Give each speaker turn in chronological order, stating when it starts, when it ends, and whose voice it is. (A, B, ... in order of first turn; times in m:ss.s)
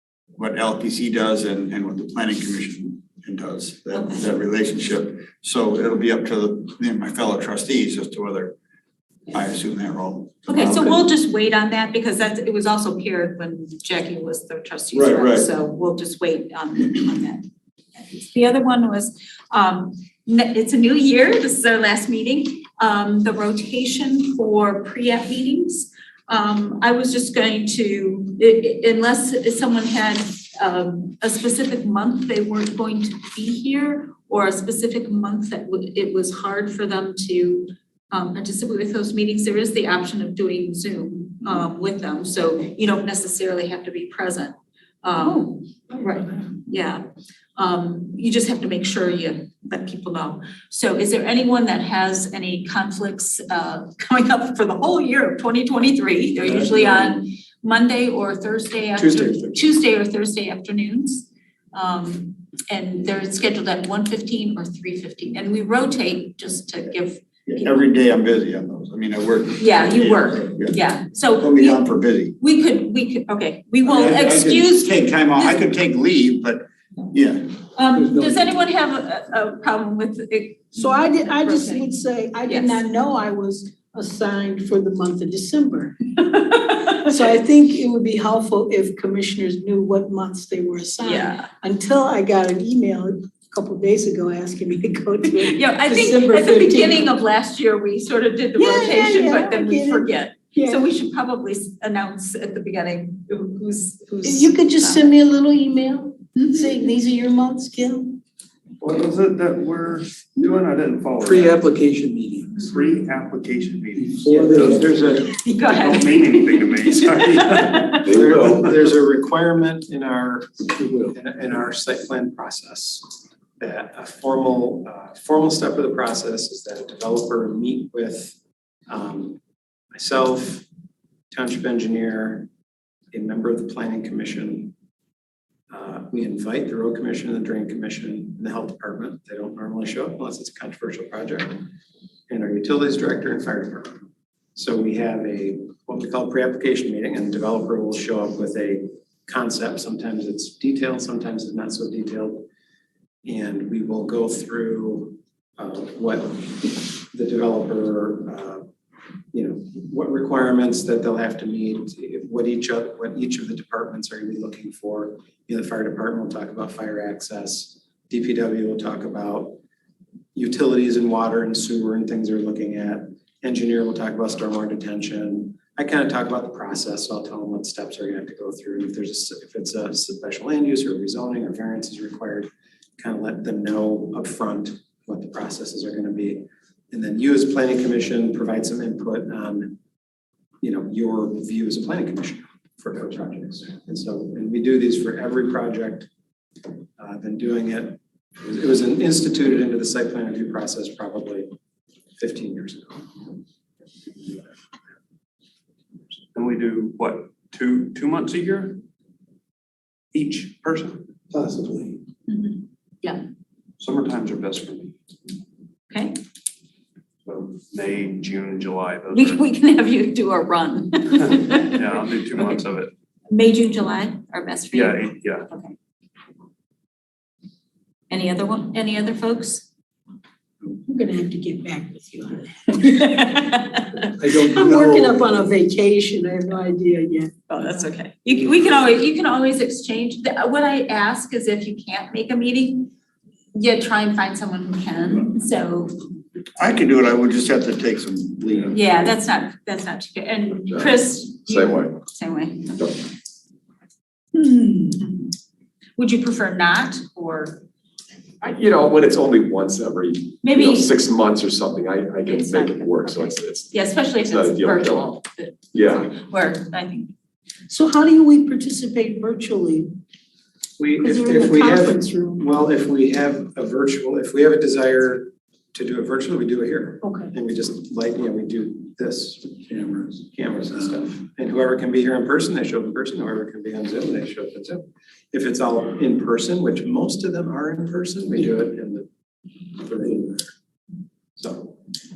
0:00.4-0:08.6 A
0:03.9-0:04.2 B
0:09.3-0:11.0 A
0:10.5-0:47.0 B
0:14.9-0:15.5 A
0:47.6-1:07.8 B
1:07.5-1:12.4 A
1:09.6-1:15.7 B
1:13.8-1:17.5 A
1:17.8-1:22.8 B
1:20.8-1:26.2 C
1:26.2-1:27.0 B
1:27.0-1:37.1 C
1:31.0-1:31.5 B
1:35.4-1:45.2 B
1:38.6-1:40.8 C
1:44.2-1:48.2 C
1:48.8-1:51.7 D
1:51.2-1:52.5 E
1:52.6-1:58.2 D
1:54.2-1:54.8 E
1:54.3-1:55.2 F
1:55.4-1:58.1 B
1:58.0-2:03.0 F
2:03.6-2:08.4 F
2:08.9-2:09.4 F
2:09.9-2:10.7 F
2:11.3-2:12.5 F
2:13.1-2:14.7 F
2:15.7-2:21.7 F
2:22.3-2:32.5 F
2:33.2-2:38.6 F
2:39.3-2:49.6 F
2:50.4-3:09.8 F
3:10.6-3:16.1 F
3:17.0-3:21.5 F
3:22.2-3:23.1 F
3:26.3-3:28.8 D
3:30.1-3:31.0 D
3:32.3-3:33.2 B
3:33.8-3:34.9 D
3:35.9-3:36.2 B
3:37.2-3:39.4 D
3:39.1-3:42.6 B
3:41.8-3:42.9 D
3:43.3-3:45.8 B
3:44.7-3:45.4 D
3:48.1-3:49.6 B
3:50.8-3:52.9 C
3:52.8-3:54.1 B
3:54.2-3:57.3 C
3:54.3-3:55.1 E
3:57.5-4:02.9 B
4:03.5-4:06.0 B
4:06.6-4:08.8 A
4:08.7-4:12.8 B
4:10.7-4:12.0 G
4:14.3-4:15.4 B
4:16.0-4:17.6 B
4:18.4-4:25.2 G
4:20.4-4:21.0 B
4:22.2-4:27.1 B
4:25.7-4:26.1 G
4:27.7-4:29.9 C
4:30.8-4:49.1 F
4:31.0-4:32.4 C
4:37.0-4:37.3 C
4:49.8-4:50.5 F
4:51.4-4:51.8 F